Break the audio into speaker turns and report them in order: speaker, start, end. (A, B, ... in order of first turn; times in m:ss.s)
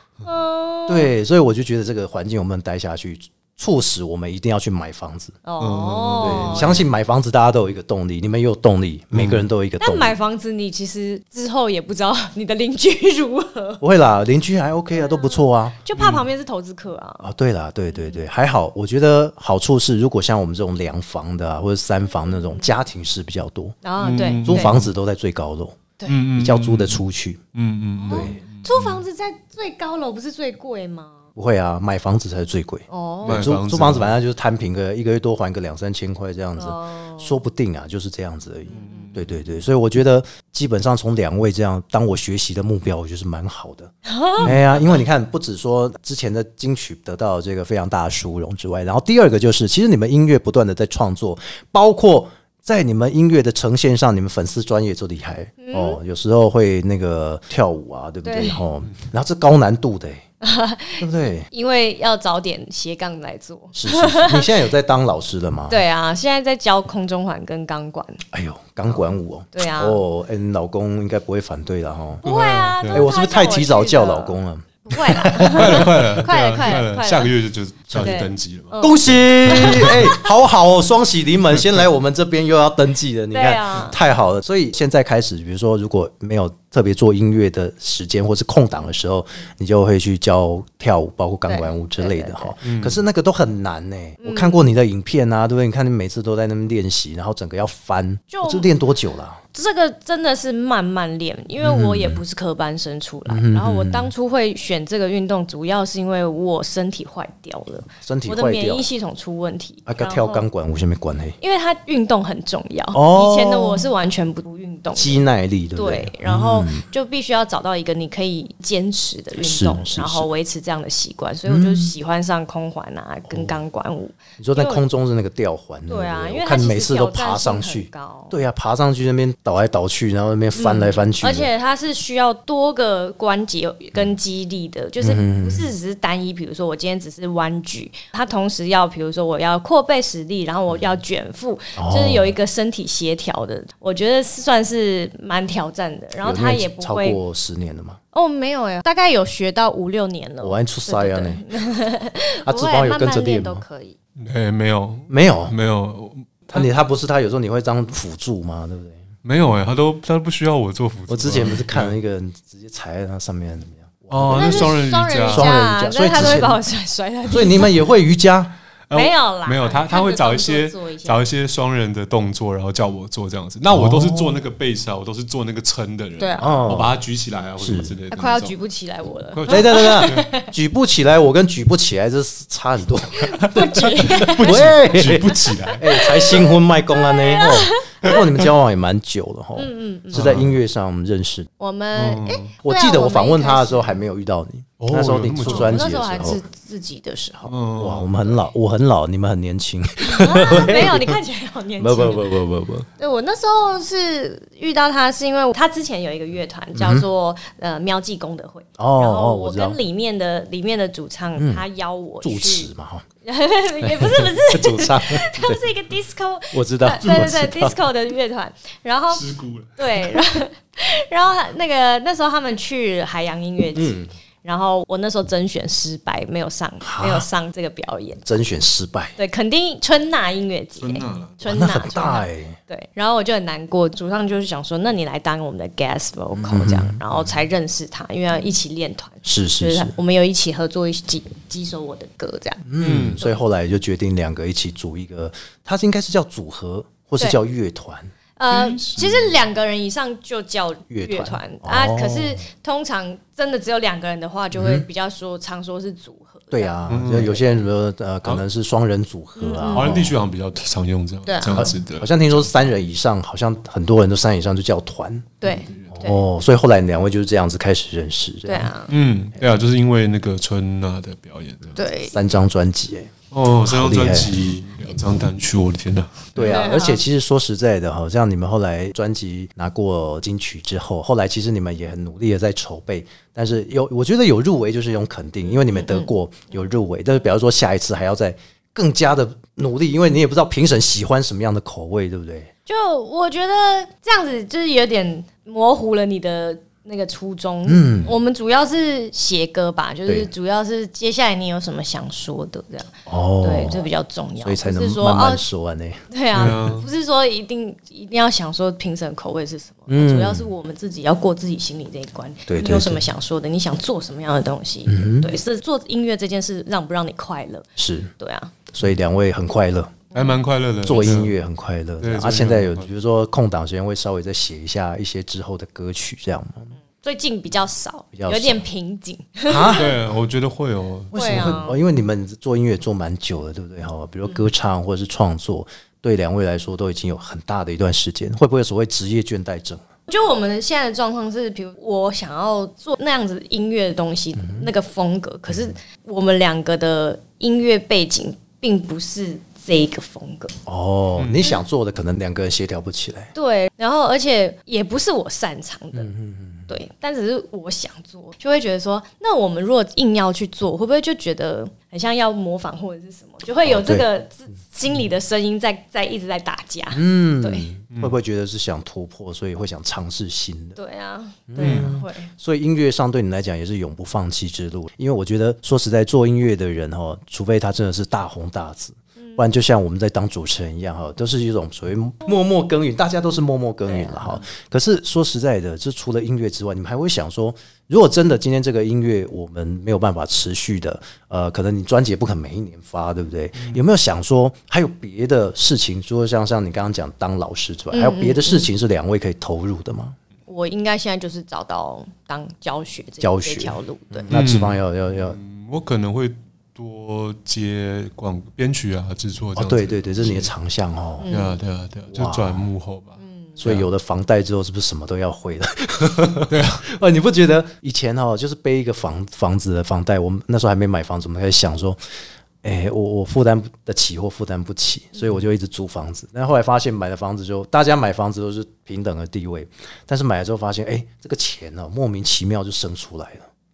0:00.2-0:01.1 A
0:00.9-0:05.4 B
0:05.4-0:06.8 A
0:05.6-0:06.8 C
0:06.2-0:10.1 B
0:09.1-0:09.4 C
0:09.8-0:13.8 A
0:13.8-0:15.8 B
0:14.9-0:17.3 A
0:15.9-0:16.2 C
0:17.2-0:23.8 B
0:17.9-0:18.2 A
0:22.3-0:22.6 A
0:23.8-0:24.9 A
0:24.0-0:24.9 C
0:24.4-0:25.8 B
0:26.0-0:29.0 C
0:26.3-0:27.4 B
0:28.0-0:31.2 A
0:28.1-0:28.4 B
0:31.4-1:00.2 B
0:32.9-0:33.5 A
0:33.2-0:34.2 C
0:36.6-0:37.4 A
0:38.7-0:39.1 A
0:38.7-0:39.3 C
0:44.0-0:44.5 A
0:55.6-0:56.0 A
0:58.2-0:58.6 A
1:00.4-1:04.6 A
1:01.0-1:01.5 B
1:03.7-1:05.8 B
1:05.7-1:08.2 A
1:08.3-1:12.2 B
1:09.5-1:10.0 A
1:12.2-1:17.3 A
1:12.2-1:13.1 C
1:12.9-1:15.9 B
1:15.4-1:20.1 C
1:17.9-1:18.2 B
1:17.9-1:20.3 A
1:18.8-1:39.4 B
1:23.3-1:24.0 A
1:31.5-1:32.5 A
1:32.6-1:33.0 C
1:34.2-1:34.6 A
1:38.3-1:38.7 A
1:39.5-1:50.4 A
1:41.6-1:42.2 B
1:43.3-1:44.1 B
1:48.0-1:48.9 B
1:49.9-1:51.4 B
1:51.4-1:55.2 A
1:52.9-1:53.9 B
1:54.9-1:56.8 B
1:55.8-2:04.8 A
1:59.4-2:00.3 B
2:01.5-2:01.9 B
2:03.3-2:03.5 B
2:04.4-2:11.5 B
2:05.9-2:08.3 A
2:10.5-2:27.2 A
2:15.0-2:15.7 B
2:21.8-2:22.3 B
2:26.2-2:28.0 B
2:28.1-2:34.0 A
2:30.4-2:31.4 B
2:32.4-2:33.6 B
2:34.2-2:36.7 C
2:35.1-2:35.5 B
2:36.5-2:39.0 B
2:39.2-2:42.0 C
2:41.1-2:46.6 B
2:44.1-2:45.6 C
2:44.3-2:47.8 A
2:46.2-2:46.4 C
2:47.3-2:48.5 B
2:48.9-2:58.5 C
2:48.9-2:51.2 A
2:53.7-2:54.4 B
2:56.2-2:56.5 A
2:56.4-2:57.0 B
2:57.6-2:57.9 B
2:58.1-3:00.5 A
2:59.3-3:00.3 C
2:59.5-3:11.5 B
3:03.2-3:04.7 A
3:03.8-3:06.1 C
3:06.0-3:08.2 A
3:09.6-3:10.4 A
3:10.1-3:10.6 C
3:11.6-3:14.0 A
3:11.9-3:12.5 C
3:12.6-3:16.4 B
3:14.8-3:15.9 C
3:15.4-3:17.5 A
3:17.5-3:18.3 C
3:17.7-3:21.2 B
3:20.0-3:22.3 A
3:21.8-3:22.9 B
3:23.0-3:32.7 A
3:26.7-3:27.0 B
3:28.8-3:29.8 B
3:31.4-3:31.6 B
3:32.2-3:33.0 B
3:33.2-3:39.2 A
3:33.8-3:35.6 B
3:36.5-3:37.8 B
3:39.1-3:40.2 C
3:39.8-3:48.2 A
3:43.7-3:44.1 B
3:46.8-3:47.2 B
3:48.2-3:49.1 B
3:49.2-4:02.6 A
3:50.8-3:51.5 C
3:51.4-3:52.6 B
3:56.3-3:57.0 B
3:59.2-3:59.9 B
4:02.6-4:08.1 B
4:02.8-4:03.2 C
4:08.4-4:17.4 A
4:08.5-4:09.3 C
4:10.9-4:12.4 B
4:14.5-4:14.8 B
4:16.5-4:20.1 B
4:16.9-4:17.4 C
4:19.4-4:20.0 A
4:19.7-4:22.5 C
4:21.3-4:21.7 A
4:21.5-4:25.4 B
4:25.4-4:26.2 A
4:25.4-4:25.9 C
4:25.9-4:28.7 B
4:28.5-4:28.9 A
4:28.9-4:31.8 C
4:31.8-4:32.2 A
4:32.1-4:33.1 B
4:33.3-4:36.4 C
4:33.6-4:34.3 B
4:36.3-4:52.5 B
4:36.4-4:37.0 A
4:45.7-4:46.1 A
4:52.7-5:05.4 A
4:57.6-4:58.1 B
5:03.0-5:03.9 B
5:04.4-5:06.0 B
5:06.1-5:17.7 A
5:06.3-5:06.9 C
5:09.9-5:10.5 B
5:12.5-5:13.0 B
5:14.9-5:15.3 B
5:17.8-5:18.1 B
5:18.2-5:18.5 A
5:18.7-5:20.0 B
5:20.1-5:20.4 A
5:20.1-5:21.4 C
5:20.8-5:26.7 B
5:22.0-5:22.9 C
5:27.0-5:29.9 A
5:28.1-5:28.6 B
5:29.4-5:29.9 B
5:29.8-5:31.6 C
5:31.1-5:39.8 B
5:31.1-5:31.8 A
5:40.1-5:50.5 A
5:44.4-5:44.7 B
5:50.6-5:53.3 B
5:51.2-5:51.5 C
5:53.3-5:56.1 A
5:55.9-5:56.7 B
5:56.7-6:07.7 A
6:03.6-6:04.0 B
6:06.9-6:10.8 B
6:10.8-6:12.3 A
6:11.5-6:40.2 B
6:11.6-6:11.9 C
6:19.2-6:19.4 A
6:23.9-6:24.4 A
6:37.9-6:38.7 A
6:40.5-6:44.3 A
6:43.2-6:45.4 B
6:44.3-6:50.5 C
6:49.6-6:51.3 B
6:51.2-6:51.6 A
6:51.3-6:53.9 C
6:52.1-6:52.7 B
6:53.2-6:53.6 A
6:53.6-7:02.0 B
6:56.5-6:56.8 C
7:02.6-7:13.5 B